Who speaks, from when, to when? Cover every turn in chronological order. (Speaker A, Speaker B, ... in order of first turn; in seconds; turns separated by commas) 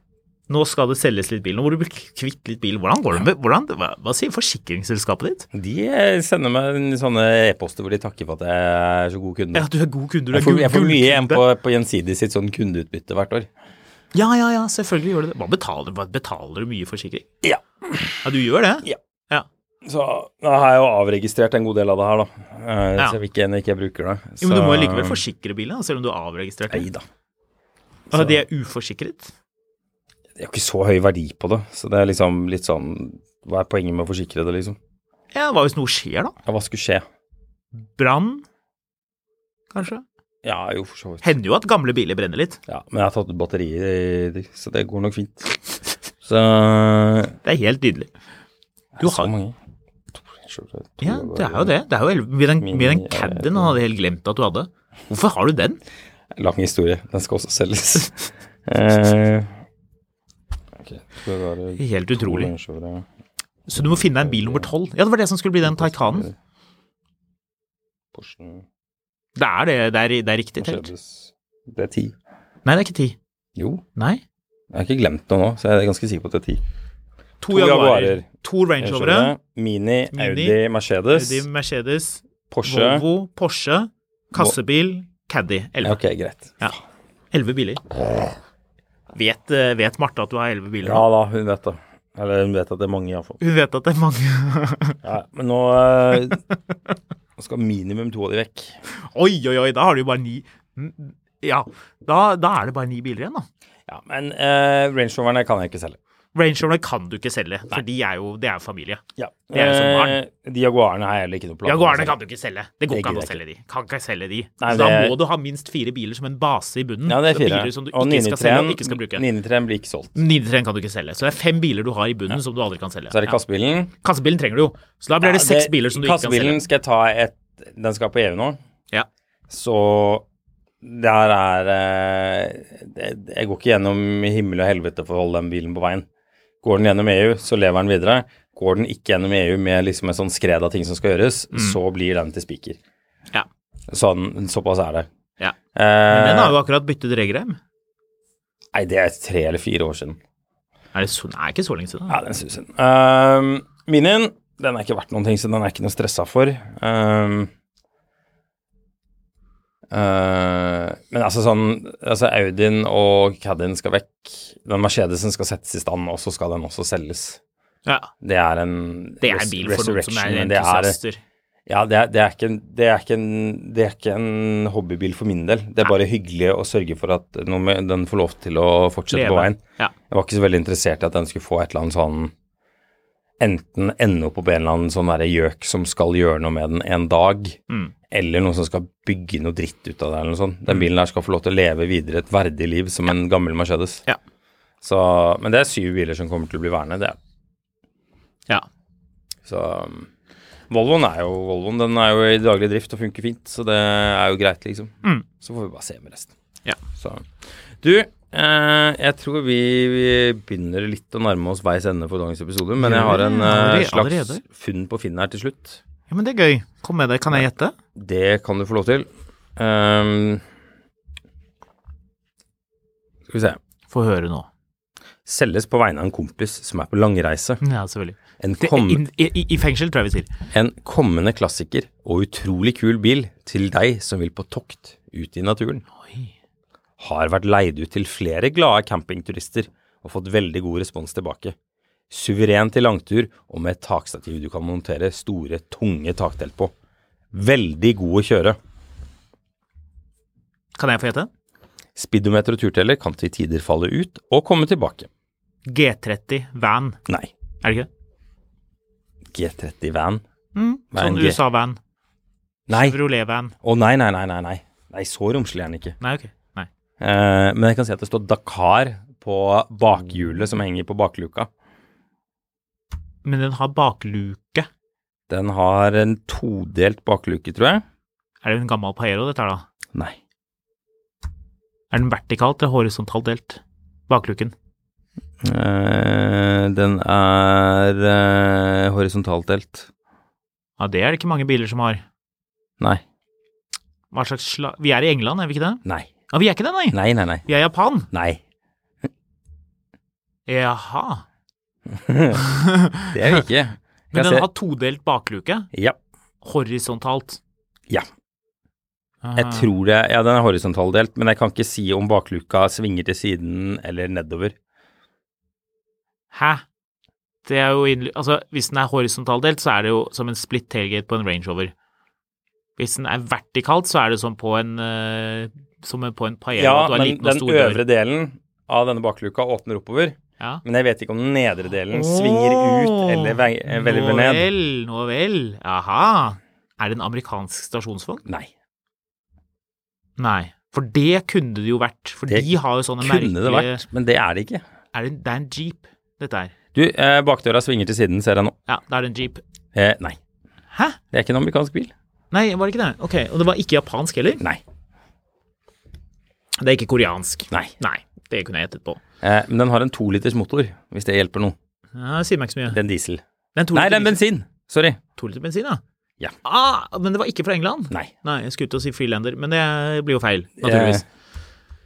Speaker A: 0.5-5.5, Speaker B: 5.5-9.7, Speaker A: 9.5-11.4, Speaker B: 10.3-13.5, Speaker A: 14.1-17.2, Speaker B: 17.4-18.2, Speaker A: 18.2-19.5, Speaker B: 19.8-25.2, Speaker A: 24.4-26.9, Speaker B: 26.7-27.0, Speaker B: 28.1-28.4, Speaker A: 28.1-29.3, Speaker B: 30.4-34.8, Speaker A: 35.3-36.3, Speaker B: 36.5-37.0, Speaker A: 38.0-38.4, Speaker A: 39.7-40.0, Speaker B: 40.4-41.4, Speaker A: 41.2-42.6, Speaker B: 42.7-45.6, Speaker B: 46.2-47.4, Speaker A: 47.4-48.1, Speaker B: 49.0-49.5, Speaker A: 49.0-49.3, Speaker B: 50.1-51.7, Speaker A: 51.0-55.8, Speaker B: 52.6-53.8, Speaker B: 56.4-59.5, Speaker B: 60.8-63.0, Speaker A: 61.8-62.5, Speaker A: 63.7-66.3, Speaker B: 64.0-64.7, Speaker B: 65.6-66.3, Speaker B: 68.1-68.6, Speaker A: 69.3-70.9, Speaker B: 70.6-72.1, Speaker A: 72.6-73.2, Speaker B: 73.6-73.8, Speaker A: 74.0-74.2, Speaker B: 74.7-76.6, Speaker A: 77.4-79.3, Speaker B: 77.5-78.3, Speaker B: 78.8-81.5, Speaker A: 80.1-80.6, Speaker A: 81.1-86.0, Speaker B: 82.5-83.0, Speaker B: 85.8-86.6, Speaker A: 87.3-87.9, Speaker A: 89.1-91.0, Speaker B: 90.8-93.4, Speaker A: 93.4-95.0, Speaker B: 95.0-96.4, Speaker B: 97.4-98.8, Speaker A: 98.9-103.5, Speaker B: 103.9-106.0, Speaker A: 106.3-109.0, Speaker B: 109.2-112.2, Speaker A: 109.5-110.2, Speaker A: 111.6-119.2, Speaker B: 112.9-113.4, Speaker B: 114.6-115.2, Speaker B: 117.0-120.2, Speaker A: 120.2-123.4, Speaker B: 123.1-123.9, Speaker A: 124.0-126.6, Speaker B: 125.2-128.6, Speaker B: 129.5-130.2, Speaker B: 130.8-136.1, Speaker B: 136.6-142.8, Speaker A: 141.5-141.8, Speaker B: 143.9-145.1, Speaker B: 145.7-146.5, Speaker A: 146.1-147.6, Speaker B: 148.7-150.2, Speaker A: 150.9-152.2, Speaker B: 152.1-157.5, Speaker B: 159.9-167.4, Speaker A: 167.8-168.1, Speaker B: 168.2-171.0, Speaker A: 169.2-171.2, Speaker B: 171.7-179.6, Speaker A: 179.1-179.9, Speaker B: 180.1-182.3, Speaker B: 183.4-187.6, Speaker B: 188.1-194.0, Speaker B: 194.8-197.2, Speaker B: 199.4-200.1, Speaker B: 200.7-206.3, Speaker B: 206.9-207.3, Speaker B: 207.8-215.8, Speaker A: 212.8-214.4, Speaker A: 216.1-217.7, Speaker B: 217.9-220.4, Speaker B: 223.3-223.6, Speaker A: 223.9-224.5, Speaker B: 225.2-227.6, Speaker A: 227.6-230.3, Speaker B: 228.4-229.0, Speaker B: 230.5-235.8, Speaker A: 236.0-236.3, Speaker B: 237.0-241.5, Speaker B: 242.1-246.7, Speaker B: 247.3-248.6, Speaker A: 250.7-251.3, Speaker B: 251.9-255.1, Speaker A: 255.7-257.0, Speaker A: 257.6-257.9, Speaker B: 259.3-260.2, Speaker A: 260.5-261.8, Speaker B: 260.9-261.4, Speaker B: 262.7-263.0, Speaker A: 262.7-263.5, Speaker B: 263.6-265.9, Speaker A: 266.0-266.7, Speaker B: 267.0-271.5, Speaker A: 273.2-274.7, Speaker B: 275.3-277.8, Speaker A: 278.4-279.6, Speaker A: 281.9-284.5, Speaker B: 285.4-289.9, Speaker A: 290.8-292.0, Speaker A: 294.1-298.1, Speaker B: 295.8-296.1, Speaker B: 296.9-297.5, Speaker B: 298.1-298.4, Speaker A: 300.5-301.2, Speaker B: 301.9-302.5, Speaker A: 302.4-303.4, Speaker B: 303.1-304.4, Speaker A: 304.1-305.7, Speaker A: 306.4-307.4, Speaker A: 309.2-309.7, Speaker B: 309.4-314.5, Speaker A: 316.3-316.6, Speaker A: 317.4-321.7, Speaker A: 322.8-327.8, Speaker B: 326.6-334.5, Speaker A: 331.9-338.2, Speaker A: 340.2-343.8, Speaker B: 342.3-344.6, Speaker A: 344.9-346.5, Speaker B: 346.7-348.5, Speaker A: 348.7-349.4, Speaker B: 349.7-350.2, Speaker A: 350.7-351.0, Speaker B: 351.1-351.9, Speaker A: 352.3-354.4, Speaker A: 356.6-359.0, Speaker B: 359.2-361.6, Speaker A: 361.9-362.8, Speaker B: 362.7-363.2, Speaker A: 363.6-364.2, Speaker B: 363.7-365.0, Speaker A: 365.1-365.8, Speaker A: 366.4-371.0, Speaker B: 370.6-371.0